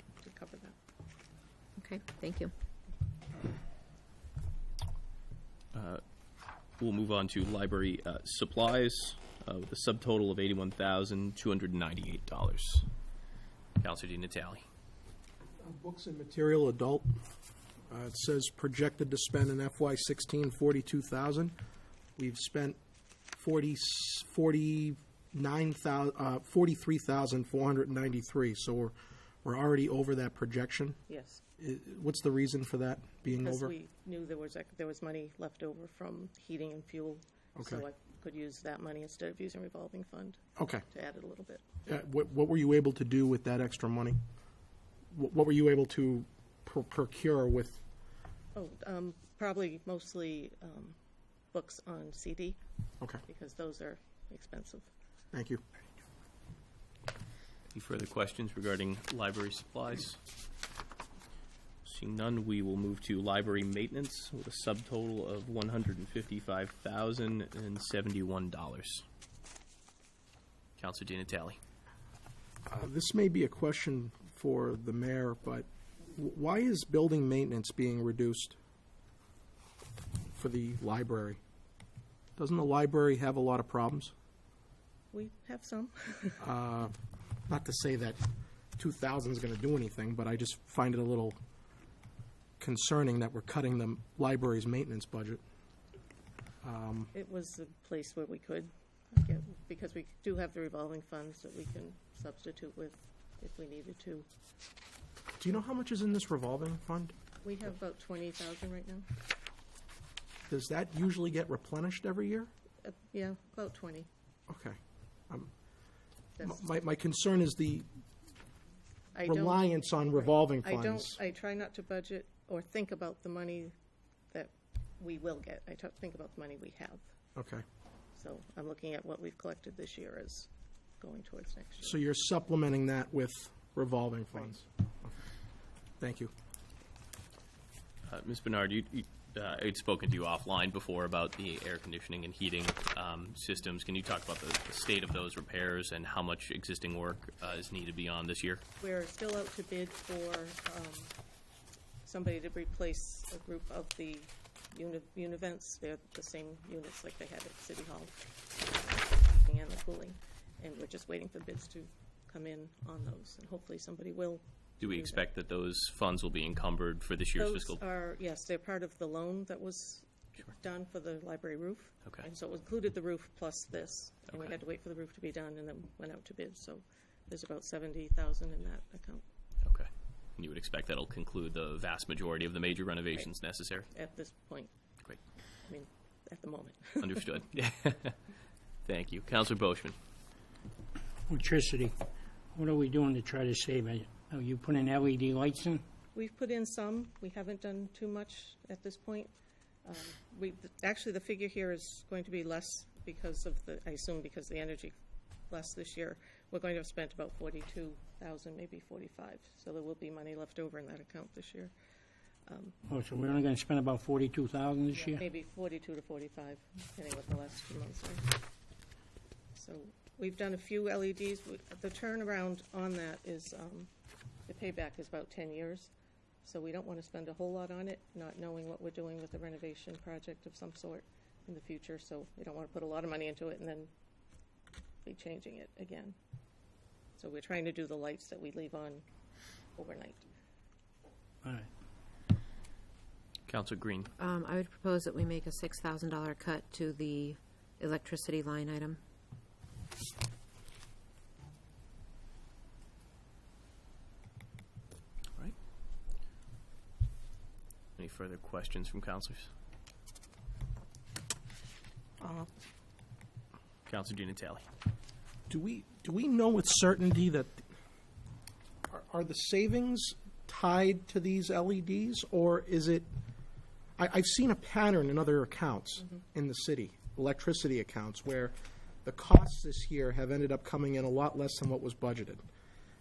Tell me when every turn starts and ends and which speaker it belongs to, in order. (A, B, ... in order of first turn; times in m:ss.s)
0:00.2-0:00.8 A
0:01.8-0:02.5 B
0:05.7-0:06.0 C
0:06.8-0:12.9 C
0:13.8-0:14.6 C
0:15.6-0:17.1 D
0:17.9-0:21.5 D
0:22.2-0:22.8 D
0:23.3-0:31.0 D
0:31.1-0:31.4 A
0:31.6-0:33.7 D
0:33.3-0:40.4 A
0:37.6-0:37.8 D
0:40.6-0:40.8 D
0:40.9-0:41.8 A
0:41.9-0:44.2 D
0:45.1-0:47.8 D
0:48.5-0:51.0 A
0:51.5-0:52.6 A
0:53.3-0:54.9 A
0:55.3-0:55.6 D
0:57.7-1:00.2 C
1:01.8-1:09.0 C
1:10.8-1:11.6 C
1:12.6-1:18.6 D
1:20.3-1:21.4 D
1:22.4-1:24.1 D
1:25.1-1:26.4 A
1:26.4-1:26.9 D
1:27.5-1:28.2 D
1:28.8-1:31.4 D
1:32.6-1:35.4 D
1:36.6-1:37.1 D
1:37.1-1:44.3 A
1:45.4-1:47.1 D
1:47.4-1:49.1 A
1:50.5-1:52.5 D
1:52.8-1:54.1 A
1:54.5-1:54.8 D
1:56.4-1:57.9 D
1:59.1-2:03.7 A
1:59.2-2:01.2 D
2:04.3-2:07.1 A
2:07.4-2:07.6 D
2:08.2-2:10.5 A
2:11.0-2:12.0 A
2:11.8-2:15.1 D
2:16.0-2:16.3 D
2:18.0-2:28.6 C
2:28.8-2:31.1 A
2:32.0-2:45.2 A
2:44.8-2:47.8 C
2:47.3-2:59.2 A
2:59.6-3:03.9 C
3:03.9-3:04.7 A
3:05.6-3:07.3 A
3:07.0-3:08.2 C
3:08.8-3:10.0 C
3:11.3-3:11.9 E
3:12.5-3:15.8 E
3:16.1-3:19.3 A
3:19.8-3:24.9 A
3:25.5-3:31.7 A
3:32.5-3:32.7 A
3:32.9-3:35.2 E
3:34.9-3:38.3 A
3:39.5-3:43.9 A
3:44.5-3:45.9 A
3:46.4-3:53.9 A
3:55.0-3:56.2 A
3:57.2-3:59.0 A
3:59.8-4:00.2 A
4:01.4-4:01.7 E
4:03.5-4:04.1 C
4:04.2-4:09.0 B
4:18.0-4:19.5 C
4:22.2-4:22.5 D
4:23.8-4:24.7 C
4:25.5-4:27.6 D
4:28.9-4:33.1 D
4:34.0-4:42.4 D